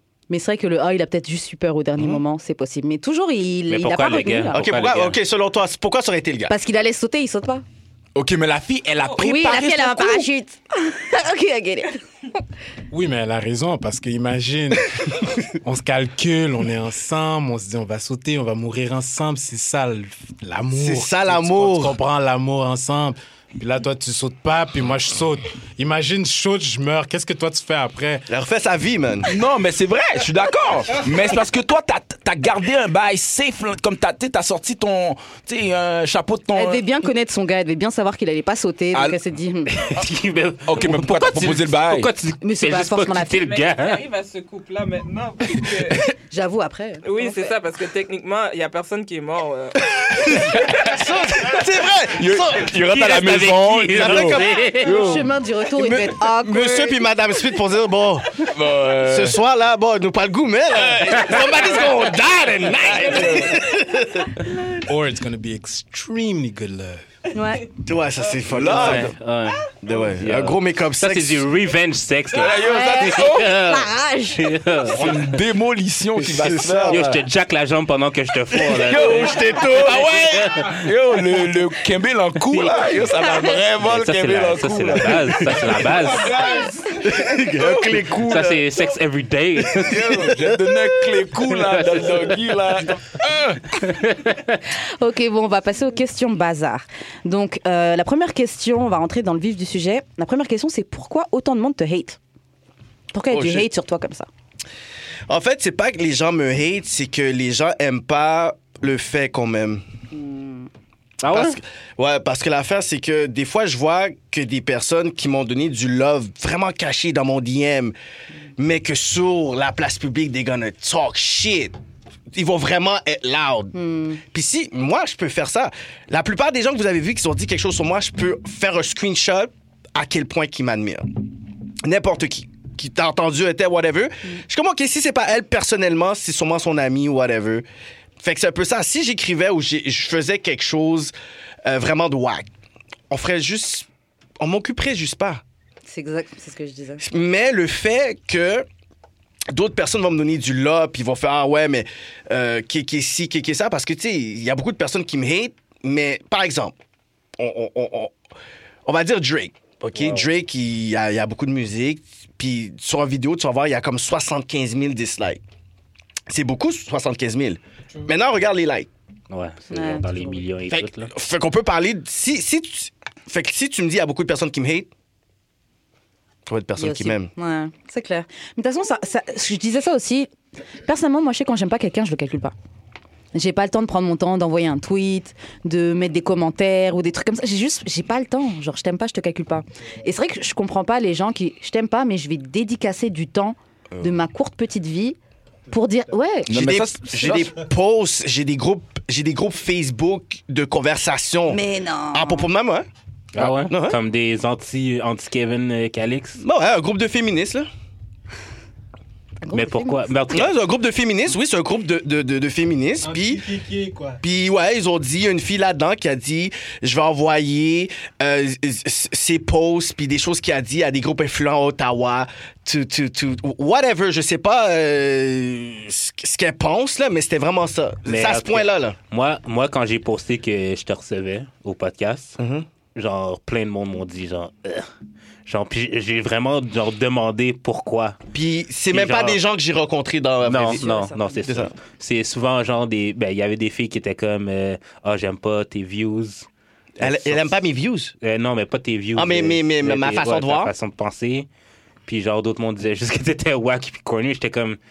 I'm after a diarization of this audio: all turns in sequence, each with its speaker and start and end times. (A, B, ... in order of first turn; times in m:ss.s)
0:00.3-0:04.6 A
0:03.7-0:05.2 B
0:04.5-0:06.5 C
0:06.5-0:07.6 A
0:08.2-0:10.3 D
0:09.2-0:12.0 A
0:12.9-0:28.3 E
0:20.7-0:22.0 C
0:28.3-0:29.3 C
0:29.3-0:36.8 D
0:36.5-0:39.7 A
0:38.9-0:39.2 D
0:39.7-0:44.0 B
0:40.6-0:42.1 D
0:42.4-0:43.5 A
0:43.3-0:46.1 F
0:46.3-0:47.5 A
0:47.0-0:50.5 F
0:50.0-0:52.8 C
0:52.1-0:55.3 D
0:52.7-0:55.0 B
0:53.9-0:55.2 C
0:54.8-0:57.0 A
0:55.8-1:04.8 C
0:58.4-0:59.4 D
1:00.7-1:01.7 D
1:01.1-1:01.4 B
1:02.8-1:03.7 D
1:04.8-1:07.1 E
1:07.3-1:07.7 A
1:07.8-1:09.1 C
1:08.5-1:09.2 D
1:08.7-1:15.4 B
1:09.8-1:11.5 C
1:12.3-1:13.6 D
1:12.6-1:14.5 A
1:14.9-1:17.2 D
1:16.2-1:17.0 C
1:16.9-1:20.8 B
1:18.5-1:20.2 C
1:18.7-1:26.3 D
1:22.5-1:22.8 B
1:23.8-1:26.4 B
1:26.3-1:26.7 E
1:27.0-1:28.6 C
1:27.5-1:28.1 D
1:28.2-1:30.2 B
1:29.8-1:33.8 D
1:31.5-1:32.3 B
1:33.8-1:34.6 B
1:34.7-1:42.2 A
1:43.1-1:44.3 A
1:43.3-1:43.7 C
1:45.3-1:49.8 C
1:50.1-1:50.7 A
1:51.2-1:51.6 B
1:51.3-1:58.0 C
1:58.6-2:01.8 C
2:02.3-2:11.2 C
2:03.7-2:04.2 A
2:11.8-2:17.6 C
2:18.2-2:21.1 C
2:21.6-2:22.5 C
2:23.1-2:23.9 C
2:24.4-2:25.4 C
2:25.9-2:27.0 A
2:27.0-2:28.7 C
2:29.5-2:36.8 C
2:37.4-2:38.1 C
2:38.9-2:45.4 C
2:40.0-2:40.3 B
2:46.3-2:48.9 C
2:49.3-2:51.1 B
2:49.7-2:50.4 A
2:50.7-2:54.9 C
2:56.5-2:57.3 C
2:56.8-3:00.3 A
3:00.8-3:02.5 A
3:03.3-3:15.2 A
3:15.7-3:16.8 A
3:16.5-3:17.5 D
3:16.5-3:21.6 C
3:21.5-3:22.5 A
3:22.1-3:22.9 C
3:23.3-3:26.4 B
3:23.4-3:24.0 C
3:26.4-3:27.7 C
3:29.4-3:30.1 A
3:29.5-3:30.6 B
3:30.3-3:33.5 C
3:33.0-3:34.2 E
3:34.2-3:49.0 C
3:48.1-3:52.4 B
3:52.4-3:52.7 C
3:53.0-3:54.9 B
3:55.5-3:58.2 B
3:58.3-4:00.9 C
3:58.9-3:59.4 B
4:00.4-4:06.5 B
4:00.6-4:01.7 A
4:01.4-4:01.7 C
4:07.0-4:08.1 C
4:07.0-4:07.6 B
4:08.2-4:11.5 B
4:09.2-4:10.7 C
4:12.1-4:14.8 B